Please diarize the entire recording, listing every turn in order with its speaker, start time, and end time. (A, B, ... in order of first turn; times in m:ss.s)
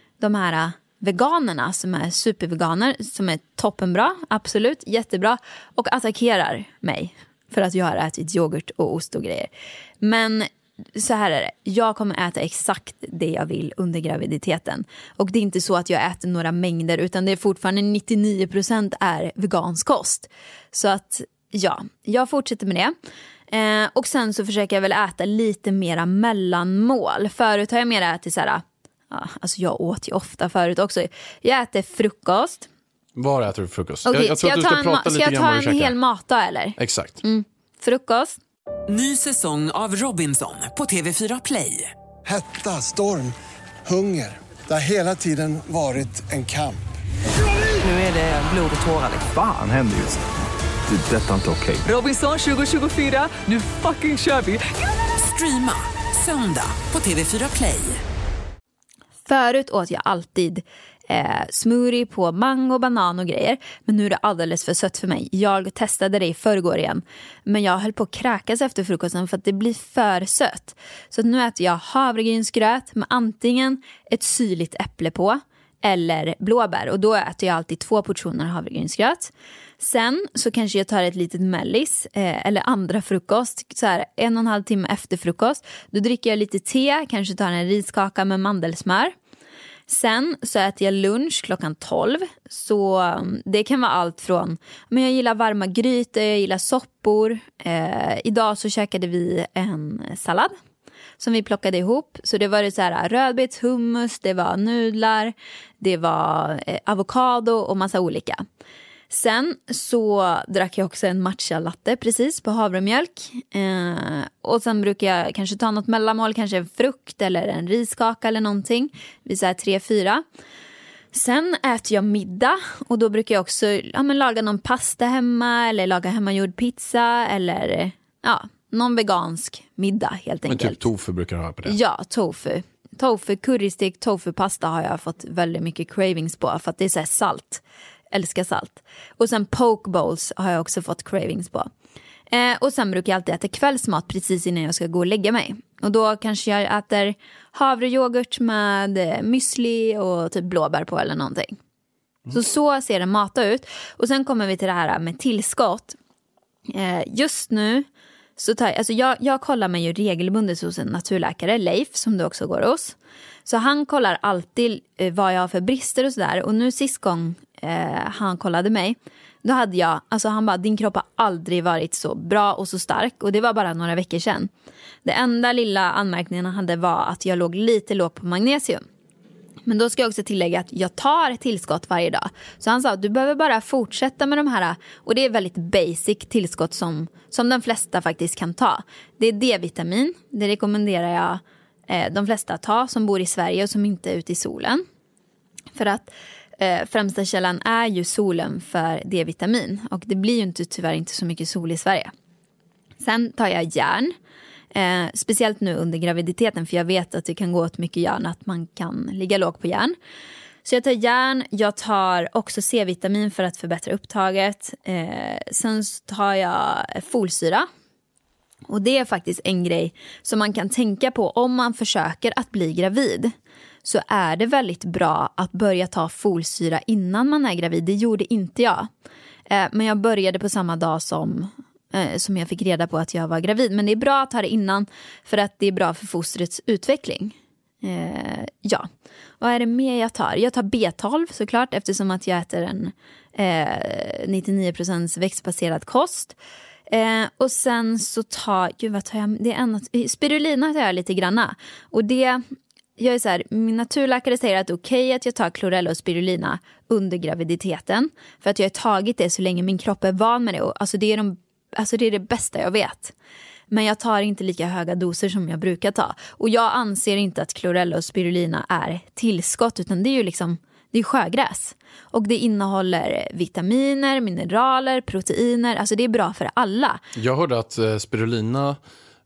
0:00.2-0:09.5 A
0:10.0-0:22.9 A
0:23.5-0:32.7 A
0:33.2-0:35.9 B
0:34.0-0:38.4 A
0:36.8-0:37.2 B
0:38.9-0:41.9 C
0:42.2-0:43.3 D
0:43.8-0:46.8 D
0:47.8-0:49.3 C
0:49.2-0:50.2 E
0:50.9-0:51.8 E
0:51.8-0:58.0 C
0:59.2-1:29.1 A
1:29.9-1:40.5 A
1:41.2-1:48.4 A
1:49.1-2:00.2 A
2:01.1-2:10.8 A
2:10.5-2:11.8 B
2:11.6-2:21.7 A
2:22.3-2:31.6 A
2:32.3-2:36.0 A
2:36.7-2:37.8 A
2:38.4-2:54.5 A
2:55.0-2:58.8 A
2:59.6-3:14.8 A
3:15.7-3:22.1 A
3:23.0-3:24.1 A
3:24.7-3:29.9 A
3:30.6-3:37.7 A
3:38.7-3:48.9 A
3:49.5-3:58.9 A
3:59.4-4:06.4 A
4:06.9-4:12.4 A
4:13.0-4:23.1 A
4:23.7-4:37.0 A
4:37.2-4:38.8 B